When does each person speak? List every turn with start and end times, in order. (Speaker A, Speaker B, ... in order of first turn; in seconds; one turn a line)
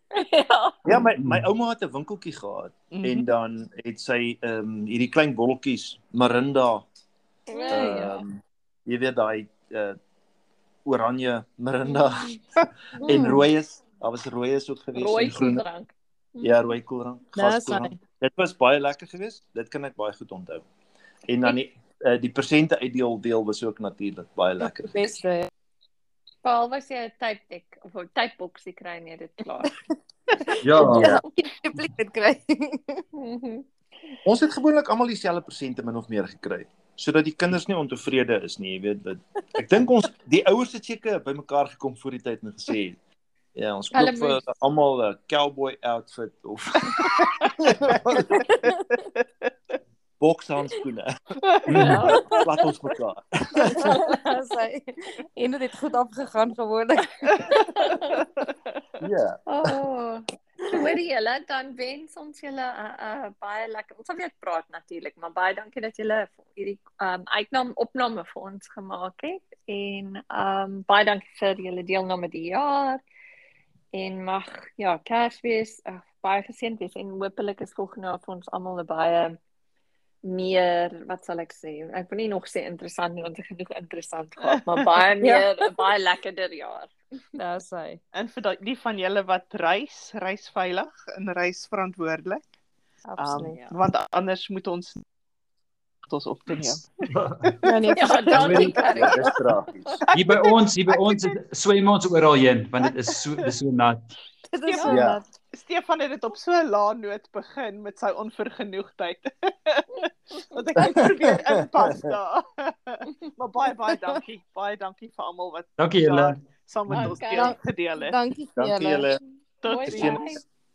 Speaker A: 0.1-0.9
Speaker B: 0.8-6.8
Speaker C: 2.9-3.3
Speaker A: 7.5-8.2
Speaker B: 7.7-10.0
Speaker B: 10.8-12.3
Speaker A: 11.9-12.3
Speaker A: 13.0-13.3
Speaker B: 13.0-15.6
Speaker D: 13.1-13.4
Speaker A: 14.9-16.5
Speaker B: 16.4-20.6
Speaker D: 17.4-18.0
Speaker B: 21.3-25.0
Speaker D: 24.6-25.5
Speaker A: 26.4-29.8
Speaker A: 30.4-31.2
Speaker E: 30.6-31.2
Speaker D: 30.8-33.0
Speaker A: 33.1-33.7
Speaker B: 34.2-43.0
Speaker B: 43.5-48.5
Speaker A: 43.9-44.4
Speaker D: 48.3-48.7
Speaker C: 49.2-49.5
Speaker B: 50.2-51.1
Speaker C: 51.5-52.1
Speaker E: 51.7-52.1
Speaker A: 51.8-52.4
Speaker D: 52.1-52.4
Speaker B: 52.4-53.9
Speaker D: 53.7-57.5
Speaker A: 57.4-58.2
Speaker B: 59.0-59.4
Speaker A: 59.5-73.0
Speaker A: 73.9-79.4
Speaker A: 80.2-86.9
Speaker C: 84.4-84.9
Speaker D: 85.2-85.7
Speaker D: 87.4-88.0
Speaker C: 88.1-92.4
Speaker D: 93.1-93.6
Speaker C: 93.2-95.0
Speaker A: 93.5-93.8
Speaker C: 96.1-96.8
Speaker E: 97.1-97.6
Speaker C: 97.6-98.0
Speaker D: 97.7-99.2
Speaker A: 97.9-100.0
Speaker E: 98.3-98.8
Speaker B: 98.8-100.0
Speaker C: 100.0-101.4
Speaker E: 100.1-104.2
Speaker C: 102.8-103.2
Speaker D: 104.5-105.3
Speaker C: 104.7-105.0
Speaker B: 104.8-105.2
Speaker C: 105.5-118.2
Speaker B: 111.0-112.0
Speaker E: 115.8-116.4
Speaker A: 116.9-117.5
Speaker D: 117.3-119.1
Speaker B: 118.6-119.2
Speaker C: 119.6-120.2
Speaker A: 119.6-120.4
Speaker B: 119.9-120.4